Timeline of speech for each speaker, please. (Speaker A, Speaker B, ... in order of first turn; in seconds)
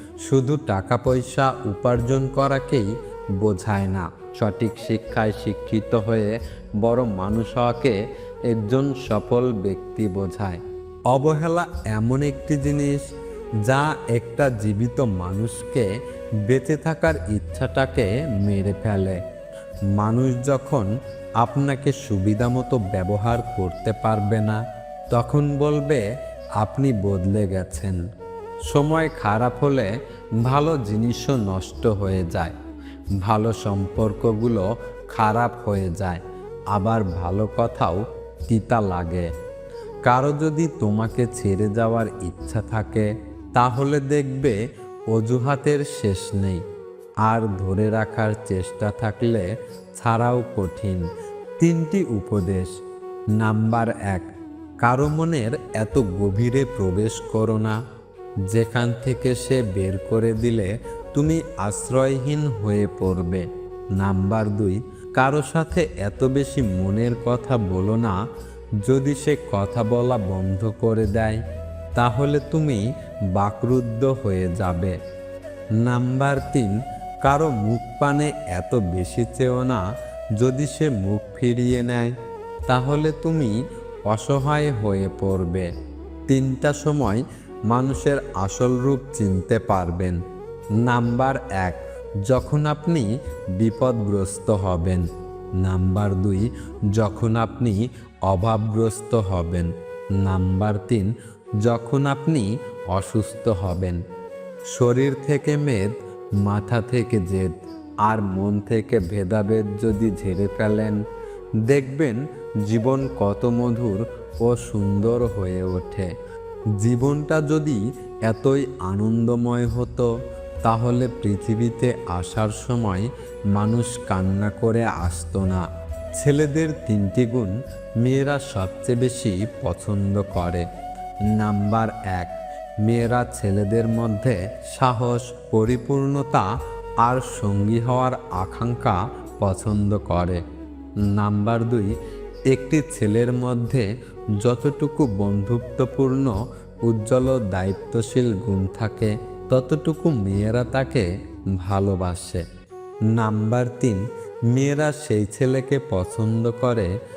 Speaker A: 0.3-2.9, 3.4-6.3, 6.8-8.0, 8.5-10.6, 11.1-13.0, 13.7-15.9, 16.5-19.2, 20.0-20.9, 21.4-24.6, 25.1-26.0, 26.6-28.0, 28.7-29.9, 30.4-32.5, 33.2-36.2, 36.7-39.3, 40.1-44.6, 45.1-46.6, 47.3-49.5, 50.0-51.1, 51.6-52.7, 53.4-54.3, 54.8-57.8, 58.5-63.5, 64.0-68.2, 68.8-71.4, 72.0-72.8, 73.4-75.0, 75.8-79.8, 80.4-82.1, 82.7-83.5, 84.1-85.7, 86.3-90.2, 90.8-93.1, 93.6-95.0, 95.6-99.7, 100.2-101.1, 101.6-104.0, 104.7-105.9, 106.4-111.0, 111.7-116.1, 116.8-120.1, 120.7-125.6, 126.2-130.7, 131.3-132.3, 132.8-136.5, 137.0-140.4, 141.1-141.9, 142.5-143.8, 144.4-146.3, 146.9-151.1, 151.6-152.4, 153.2-154.0, 154.5-156.9